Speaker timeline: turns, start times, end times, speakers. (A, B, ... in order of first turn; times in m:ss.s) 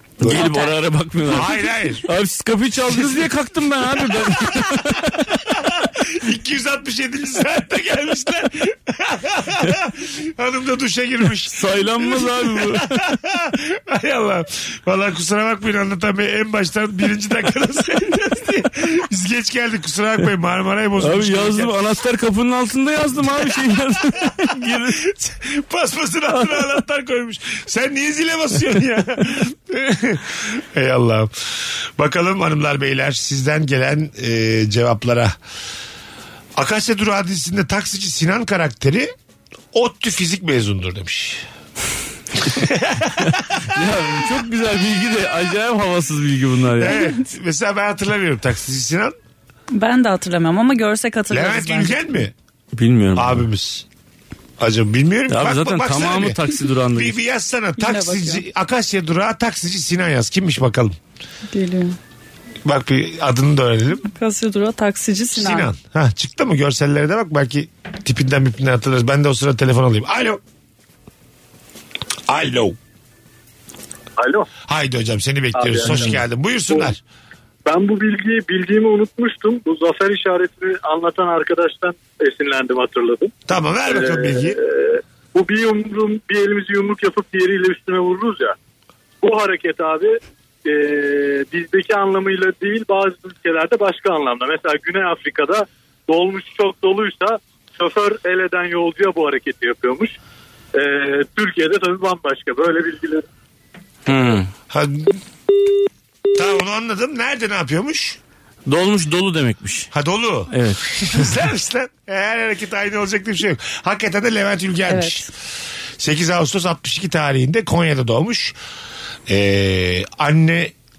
0:00.2-0:05.3 A
0:00.2-0:00.5 B
0:00.2-0:00.7 C
0:01.2-0:02.1 B
0:04.2-0:21.7 B
0:11.5-0:13.0 A
0:21.0-0:25.0 A
0:25.0-0:35.3 B
0:36.6-0:39.1 B
0:39.7-0:41.4 B
0:42.4-0:43.6 B
0:43.7-0:47.0 A
0:46.8-0:49.1 B
0:46.8-0:47.2 C
0:49.7-0:52.2 C
0:51.3-0:52.3 B
0:52.7-0:53.4 A
0:53.1-0:53.8 B
0:54.6-0:56.4 B
0:55.3-0:57.2 A
0:57.0-1:01.0 B
0:57.8-0:58.4 C
1:01.5-1:02.0 C
1:02.6-1:04.0 B
1:04.1-1:05.7 C
1:05.3-1:10.4 B
1:12.3-1:12.8 B
1:14.2-1:14.5 D
1:14.6-1:17.0 B
1:15.5-1:16.1 D
1:17.6-1:23.3 D
1:23.5-1:24.6 B
1:23.9-1:28.6 D
1:29.2-1:40.1 D
1:40.7-1:43.2 D
1:44.1-1:44.5 A
1:44.7-1:45.2 B
1:46.3-1:48.2 B
1:48.6-1:49.9 A
1:49.9-1:55.3 B
1:50.5-1:51.3 A
1:54.9-1:55.3 C
1:56.0-1:58.6 B
1:59.3-2:00.7 B